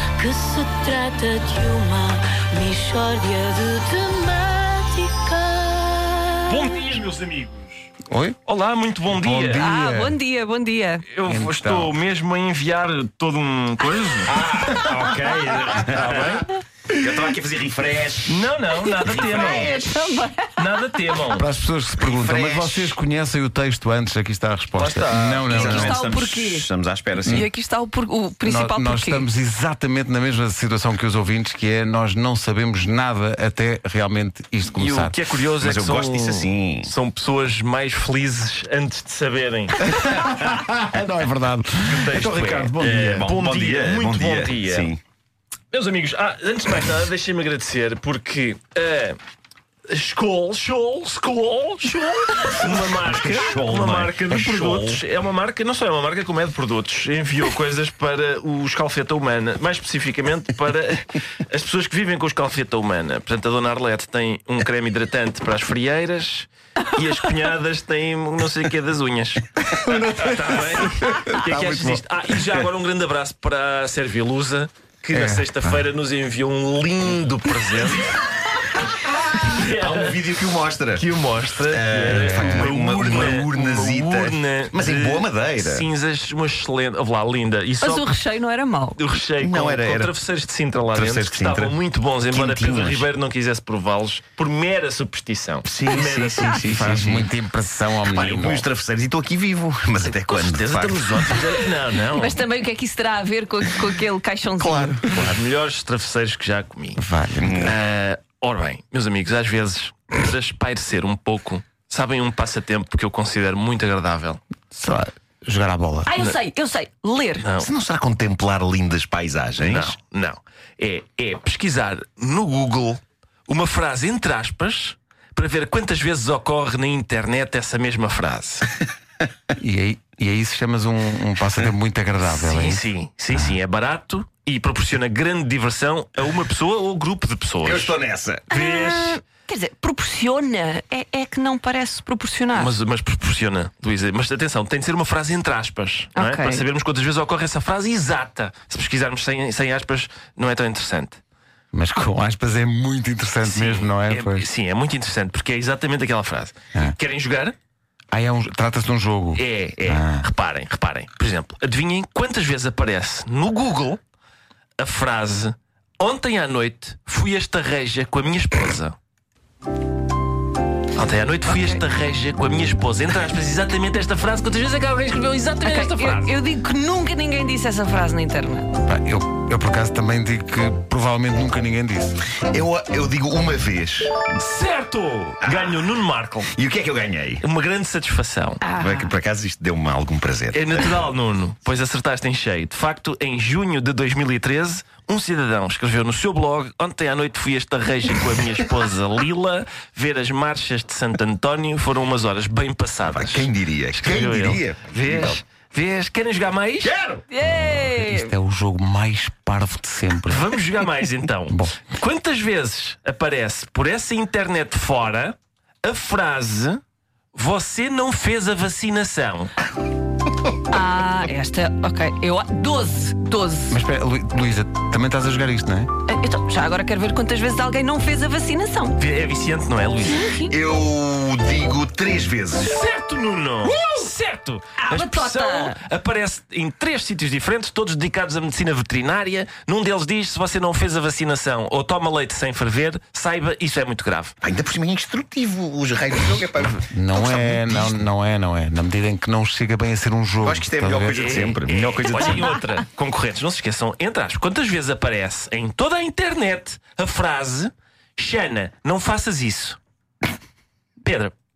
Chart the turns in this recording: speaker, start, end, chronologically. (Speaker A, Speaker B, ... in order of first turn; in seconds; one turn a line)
Speaker A: 0.2-6.6
Speaker B: 6.5-7.9
Speaker C: 8.1-8.4
Speaker B: 8.5-9.7
Speaker C: 9.1-10.2
Speaker D: 9.6-11.1
Speaker B: 11.1-16.5
Speaker C: 11.2-11.9
Speaker E: 14.2-18.5
Speaker B: 18.2-19.9
Speaker D: 19.0-20.6
Speaker E: 19.1-19.6
Speaker B: 20.6-21.5
Speaker C: 21.3-26.0
Speaker E: 22.0-23.0
Speaker B: 24.8-25.4
Speaker E: 24.8-27.5
Speaker D: 25.5-26.7
Speaker C: 27.2-27.5
Speaker D: 27.3-29.2
Speaker C: 28.5-35.2
Speaker B: 34.7-39.9
Speaker E: 35.6-36.9
Speaker C: 39.9-42.9
Speaker B: 41.9-44.9
Speaker E: 42.2-45.0
Speaker B: 45.7-49.2
Speaker B: 49.9-69.5
Speaker E: 52.7-55.0
Speaker C: 69.6-72.0
Speaker B: 70.2-78.2
Speaker C: 75.1-75.8
Speaker B: 79.1-80.2
Speaker E: 79.6-81.1
Speaker B: 80.9-88.2
Speaker E: 81.7-85.9
Speaker C: 82.1-82.7
Speaker D: 87.8-89.0
Speaker B: 89.0-96.6
Speaker E: 89.4-90.2
Speaker E: 90.9-91.8
Speaker E: 92.3-93.1
Speaker E: 95.7-97.3
Speaker C: 96.5-98.7
Speaker E: 98.1-101.5
Speaker B: 100.0-102.4
Speaker D: 102.1-105.1
Speaker E: 104.6-105.5
Speaker B: 105.1-107.0
Speaker C: 107.0-107.8
Speaker E: 107.4-107.8
Speaker B: 107.7-114.4
Speaker C: 114.7-116.2
Speaker D: 116.1-117.5
Speaker B: 117.4-117.7
Speaker E: 117.6-120.0
Speaker B: 119.6-128.7
Speaker C: 129.6-132.8
Speaker B: 132.2-137.9
Speaker E: 137.6-138.5
Speaker D: 138.5-142.7
Speaker B: 138.5-139.2
Speaker B: 142.6-151.2
Speaker D: 146.2-146.6
Speaker C: 151.7-154.5
Speaker B: 153.4-157.6
Speaker C: 158.1-160.2
Speaker B: 159.3-164.0
Speaker B: 164.8-169.0
Speaker B: 170.9-176.3
Speaker D: 175.6-178.7
Speaker C: 178.8-182.2
Speaker E: 182.5-184.2
Speaker B: 184.3-186.5
Speaker E: 185.4-185.8
Speaker E: 186.5-187.4
Speaker B: 187.4-188.7
Speaker D: 188.6-189.1
Speaker E: 188.8-191.1
Speaker B: 190.5-206.9
Speaker E: 203.1-205.4
Speaker E: 206.8-207.2
Speaker D: 207.3-208.3
Speaker C: 207.4-210.6
Speaker B: 210.3-216.8
Speaker C: 211.5-211.8
Speaker B: 217.3-219.6
Speaker D: 220.7-223.8
Speaker C: 223.7-225.9
Speaker D: 226.1-229.0
Speaker B: 229.0-230.3
Speaker D: 230.0-230.5
Speaker E: 230.5-232.8
Speaker B: 232.6-244.4
Speaker D: 233.7-234.0
Speaker D: 234.8-235.8
Speaker E: 244.4-248.0
Speaker C: 246.8-251.3
Speaker E: 250.4-252.4
Speaker B: 251.1-259.8
Speaker B: 261.0-261.3